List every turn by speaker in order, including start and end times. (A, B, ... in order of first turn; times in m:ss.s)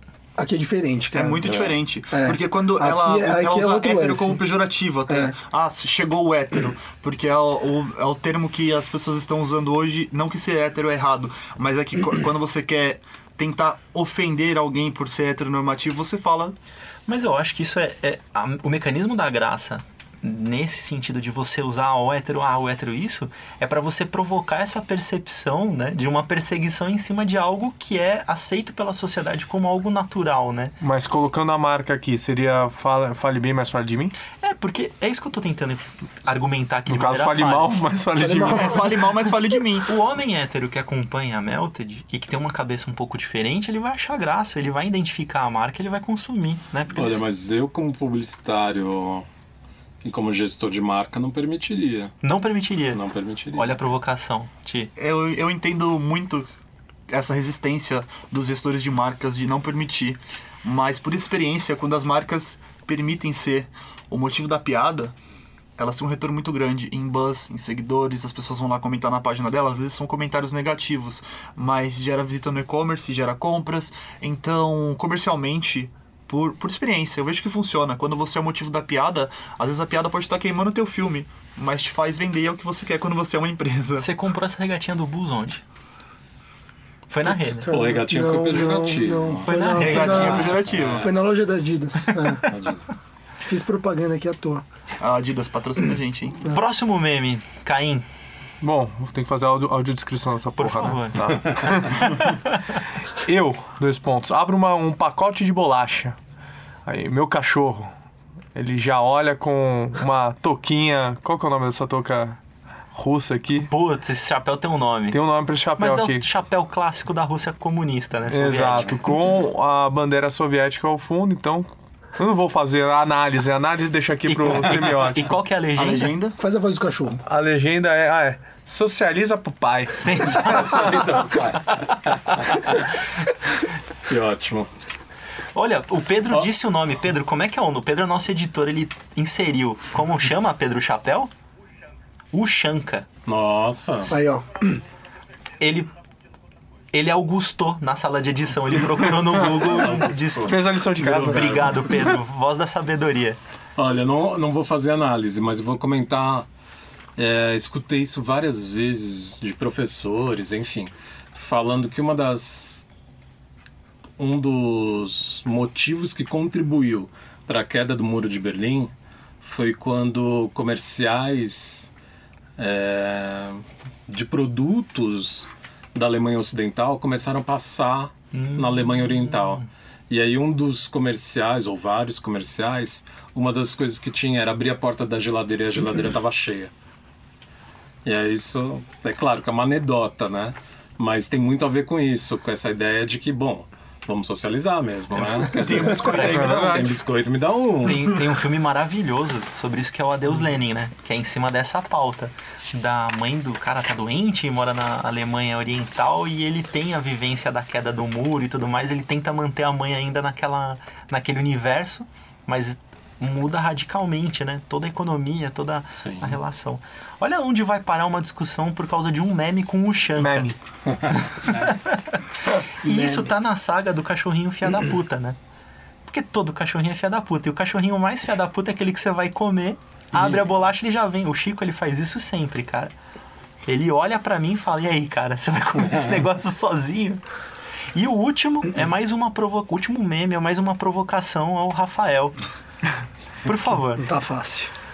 0:00.4-0:01.4 A
0:01.1-0:16.6 B
0:01.4-0:01.7 C
0:02.1-0:04.4 A
0:05.1-0:05.3 A
0:17.1-0:30.8 D
0:30.8-0:34.2 E
0:34.4-0:37.7 D
0:36.9-0:38.8 E
0:38.2-0:39.0 A
0:38.5-0:39.9 B
0:39.9-0:47.2 D
0:46.9-0:49.3 C
0:50.0-0:52.2 C
0:52.2-0:54.9 D
0:52.9-0:53.8 C
0:55.0-0:56.5 B
0:57.1-1:05.1 B
1:05.8-1:24.1 B
1:24.0-1:25.6 D
1:27.1-1:27.7 D
1:27.3-1:32.5 A
1:27.7-1:31.1 C
1:29.5-1:30.6 D
1:29.5-1:31.1 B
1:32.5-1:32.9 C
1:33.4-1:34.6 A
1:35.0-1:36.4 B
1:36.4-1:38.1 D
1:38.6-1:42.2 E
1:40.6-1:42.2 D
1:43.2-1:46.2 E
1:46.9-1:47.9 E
1:48.6-1:52.4 E
1:52.9-1:53.7 E
1:53.7-1:55.2 D
1:55.1-1:56.2 E
1:55.8-1:59.0 D
1:58.3-2:05.2 E
2:04.3-2:06.1 D
2:05.8-2:06.4 B
2:06.4-2:07.2 A
2:07.3-2:10.6 E
2:09.9-2:11.8 D
2:10.6-2:12.9 C
2:14.1-2:14.7 C
2:15.6-2:21.3 D
2:22.3-2:23.1 D
2:23.2-2:24.2 C
2:24.1-2:24.8 A
2:25.6-2:25.9 D
2:26.9-2:33.4 D
2:29.6-2:30.5 C
2:30.5-2:32.0 E
2:31.1-2:31.5 C
2:33.8-2:36.5 C
2:37.2-2:42.8 C
2:44.2-2:48.9 C
2:49.4-2:51.9 C
2:52.6-3:06.7 C
2:58.3-2:59.7 D
3:08.0-3:18.2 C
3:15.5-3:16.9 B
3:16.0-3:16.4 D
3:16.2-3:16.9 E
3:17.8-3:40.5 D
3:36.0-3:36.4 C
3:40.2-3:40.6 E
3:40.9-3:41.7 C
3:41.4-3:42.3 D
3:42.8-3:45.4 D
3:46.1-3:52.9 D
3:53.6-3:57.2 D
3:58.0-4:02.4 D
4:03.4-4:04.0 D
4:04.0-4:04.7 A